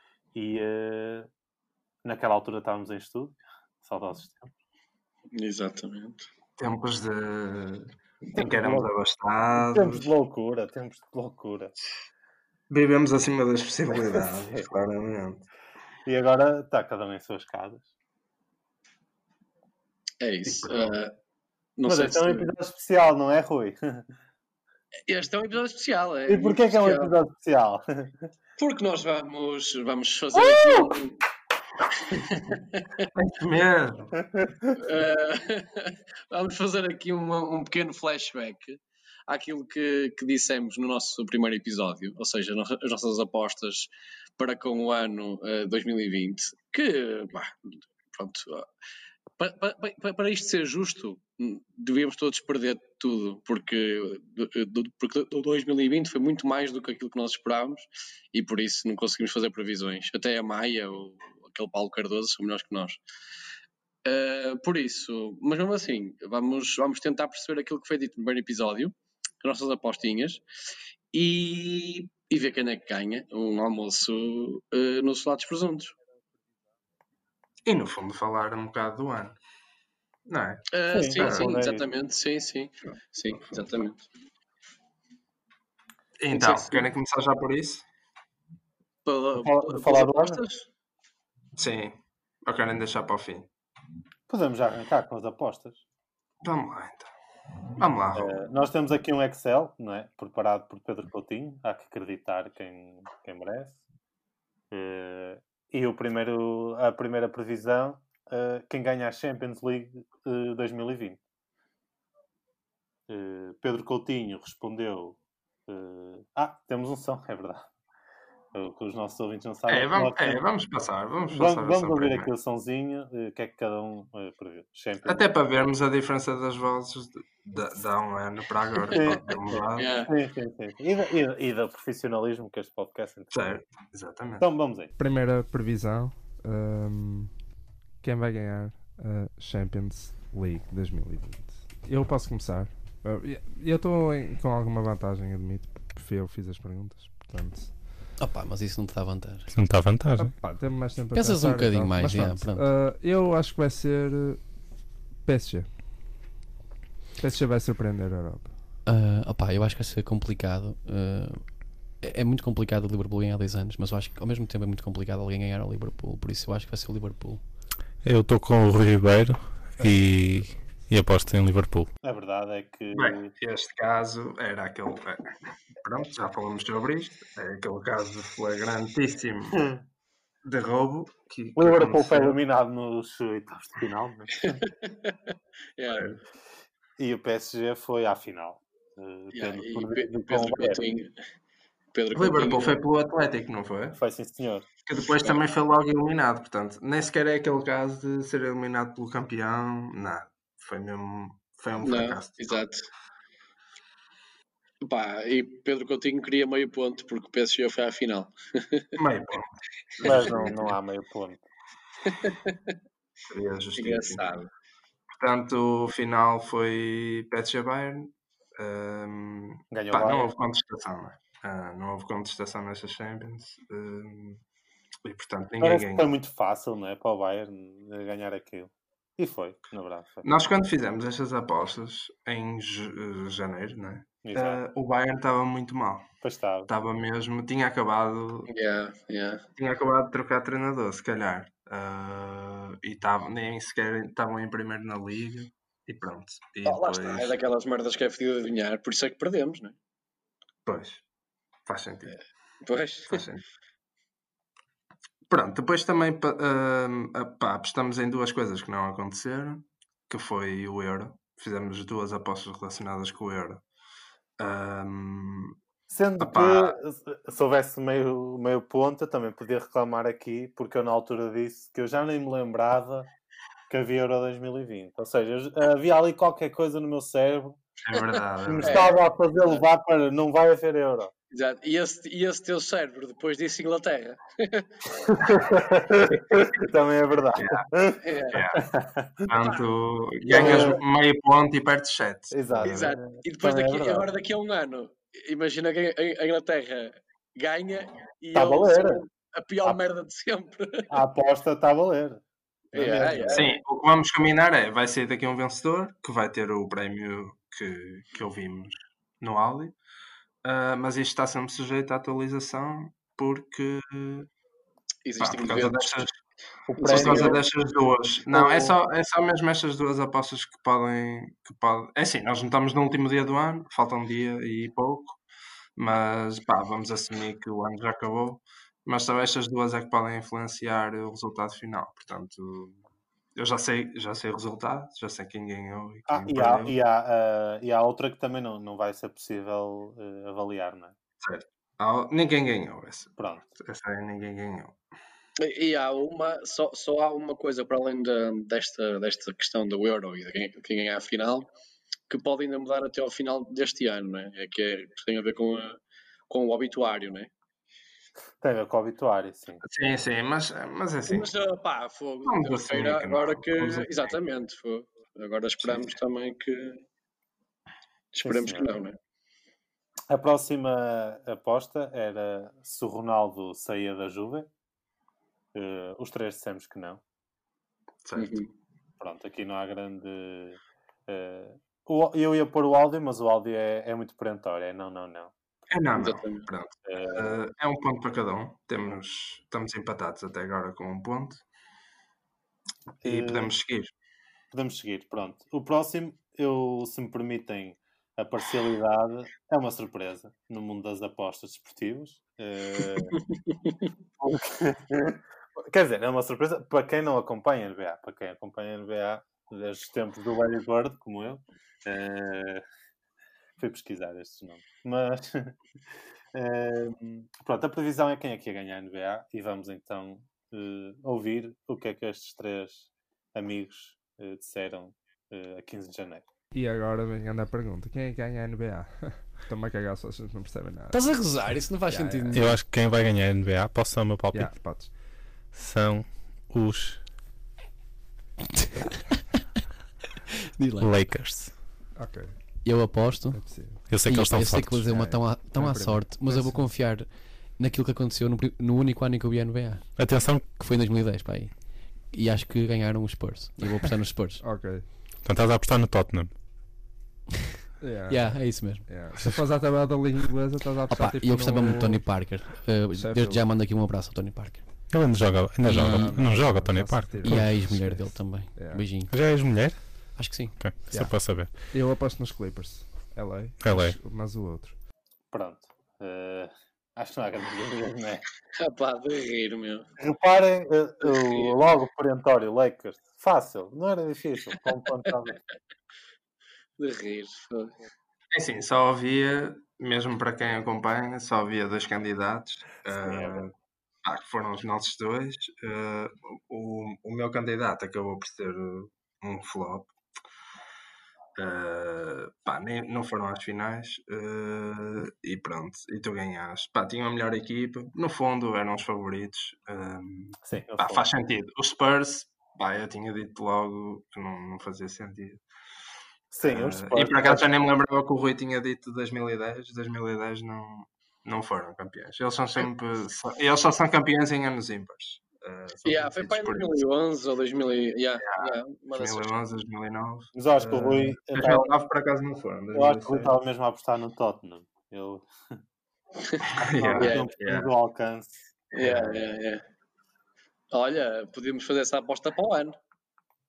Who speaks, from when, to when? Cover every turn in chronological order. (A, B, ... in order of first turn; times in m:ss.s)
0:00.4-0:01.3 A
0:02.0-0:04.5 A
0:05.4-0:06.3 B
0:06.6-0:10.1 C
0:08.4-0:08.9 A
0:09.5-0:11.7 A
0:12.7-0:15.5 C
0:13.9-0:14.6 A
0:16.1-0:17.9 A
0:20.2-0:21.2 B
0:20.5-0:21.0 C
0:21.8-0:22.5 B
0:21.9-0:24.1 A
0:25.1-0:27.1 B
0:26.3-0:28.3 A
0:28.6-0:31.2 B
0:32.1-0:33.1 B
0:33.2-0:34.2 C
0:34.3-0:34.6 A
0:34.8-0:48.7 B
0:49.4-1:03.0 B
1:04.0-1:10.4 B
1:11.1-1:16.0 B
1:17.6-1:19.4 C
1:20.3-1:21.5 C
1:20.7-1:24.1 B
1:20.9-1:21.8 A
1:26.2-1:27.8 C
1:26.3-1:26.9 B
1:29.0-1:30.7 B
1:29.4-1:30.4 A
1:31.6-1:33.5 C
1:34.3-1:35.8 A
1:36.4-1:37.1 C
1:37.8-1:38.4 C
1:38.1-1:43.8 A
1:44.7-1:51.2 A
1:53.1-1:57.7 A
1:58.5-2:00.4 A
1:59.7-2:02.3 C
2:01.3-2:05.3 A
2:05.0-2:10.0 C
2:08.9-2:13.6 A
2:09.8-2:10.1 B
2:13.3-2:14.4 C
2:14.4-2:14.9 A
2:15.0-2:17.3 D
2:18.0-2:27.7 D
2:28.2-2:29.5 E
2:29.5-2:30.3 F
2:30.2-2:34.5 D
2:31.1-2:32.7 E
2:35.2-2:35.7 D
2:37.2-2:38.5 D
2:38.8-2:47.4 E
2:48.0-2:51.9 F
2:52.0-2:53.3 A
2:52.9-2:55.3 C
2:55.8-2:59.6 C
2:59.5-2:59.8 A
3:00.4-3:02.4 C
3:01.6-3:04.5 A
3:04.4-3:05.2 B
3:05.8-3:06.1 B
3:05.9-3:06.2 C
3:07.0-3:10.8 A
3:09.3-3:11.1 B
3:11.9-3:12.8 B
3:12.2-3:14.0 C
3:14.0-3:14.7 A
3:14.9-3:22.6 C
3:21.8-3:22.9 B
3:24.8-3:28.9 B
3:29.0-3:30.6 C
3:30.0-3:30.4 B
3:30.0-3:31.4 A
3:32.1-3:32.8 B
3:33.3-3:34.2 C
3:33.8-3:34.5 B
3:35.1-3:44.4 C
3:39.7-3:40.3 A
3:45.0-3:46.1 C
3:45.6-3:50.3 A
3:50.2-3:56.1 C
3:54.2-3:54.6 A
3:56.2-3:56.7 A
3:56.7-3:58.5 C
3:58.5-3:59.4 B
3:59.6-4:07.4 C
4:06.6-4:09.8 B
4:10.7-4:11.0 C
4:11.7-4:12.2 C
4:12.6-4:13.2 B
4:13.1-4:13.4 C
4:15.3-4:23.6 C
4:24.4-4:25.6 C
4:25.9-4:33.1 A
4:26.2-4:26.8 C
4:33.7-4:37.6 A
4:37.8-4:39.0 C
4:38.4-4:41.1 A
4:38.6-4:39.6 B
4:41.3-4:44.7 B
4:45.0-4:49.3 A
4:47.4-4:47.7 C
4:48.0-4:48.4 B
4:48.3-4:48.7 C
4:49.2-4:53.0 C
4:49.4-4:49.6 B
4:50.2-4:50.8 B
4:50.3-4:50.8 A
4:52.3-4:54.1 A
4:52.6-5:01.0 B
4:58.3-4:59.0 A
5:00.9-5:03.5 A
5:02.7-5:03.6 B
5:03.3-5:09.8 C
5:10.4-5:14.3 C
5:15.0-5:16.1 B
5:15.2-5:16.2 C
5:16.7-5:17.4 A
5:16.8-5:17.4 B
5:16.8-5:25.2 C
5:18.3-5:18.8 A
5:25.8-5:32.8 C
5:33.4-5:36.7 C
5:36.1-5:41.0 A
5:41.2-5:44.8 C
5:43.2-5:43.5 A
5:45.4-5:51.5 B
5:52.1-5:57.3 B
5:58.4-5:59.6 A
5:59.6-6:01.3 C
6:01.1-6:06.8 B
6:02.2-6:04.1 C
6:05.6-6:06.0 C
6:08.1-6:09.0 B
6:08.2-6:08.8 A
6:10.1-6:14.5 A
6:15.5-6:17.0 A
6:18.0-6:18.4 C
6:18.2-6:18.5 B
6:19.0-6:25.3 A
6:25.7-6:31.4 C
6:26.0-6:26.5 B
6:26.9-6:27.4 A
6:33.0-6:33.5 A
6:33.0-6:33.9 C
6:34.5-6:43.2 A
6:44.2-6:52.6 A
6:53.6-6:55.6 A
6:56.3-7:06.2 A
7:06.5-7:12.5 D
7:10.9-7:12.6 E
7:12.3-7:14.6 F
7:14.3-7:14.9 D
7:15.5-7:17.0 F
7:20.6-7:21.1 E
7:20.8-7:21.6 F
7:22.0-7:22.4 D
7:22.6-7:34.4 E
7:23.3-7:23.9 D
7:23.9-7:24.9 F
7:24.9-7:26.7 D
7:30.0-7:30.6 F
7:34.4-7:34.9 D
7:35.2-7:36.3 F
7:37.8-7:42.3 D
7:38.1-7:39.3 E
7:40.9-7:44.7 E
7:42.9-7:43.5 D
7:44.9-7:47.6 F
7:45.6-7:46.2 E
7:45.7-7:48.9 D
7:47.2-7:49.1 E
7:49.1-7:51.6 F
7:50.2-7:50.6 E
7:50.9-7:54.7 D
7:53.6-7:54.0 F
7:55.3-7:58.3 A
7:58.6-7:59.9 B
8:00.0-8:05.4 A
8:01.1-8:01.6 B
8:06.8-8:07.7 B
8:08.3-8:13.5 C
8:12.9-8:13.5 A
8:14.0-8:19.9 C
8:21.4-8:35.4 C
8:30.4-8:31.1 A
8:36.3-8:37.5 A
8:36.4-8:46.7 C
8:45.8-8:49.4 B
8:48.2-8:53.3 C
8:50.4-8:51.7 A
8:52.7-8:55.3 A
8:56.5-8:57.7 C
8:56.6-8:58.5 A
8:57.0-8:57.3 B
8:58.7-8:59.6 B
8:58.8-8:59.2 C
9:00.7-9:02.8 B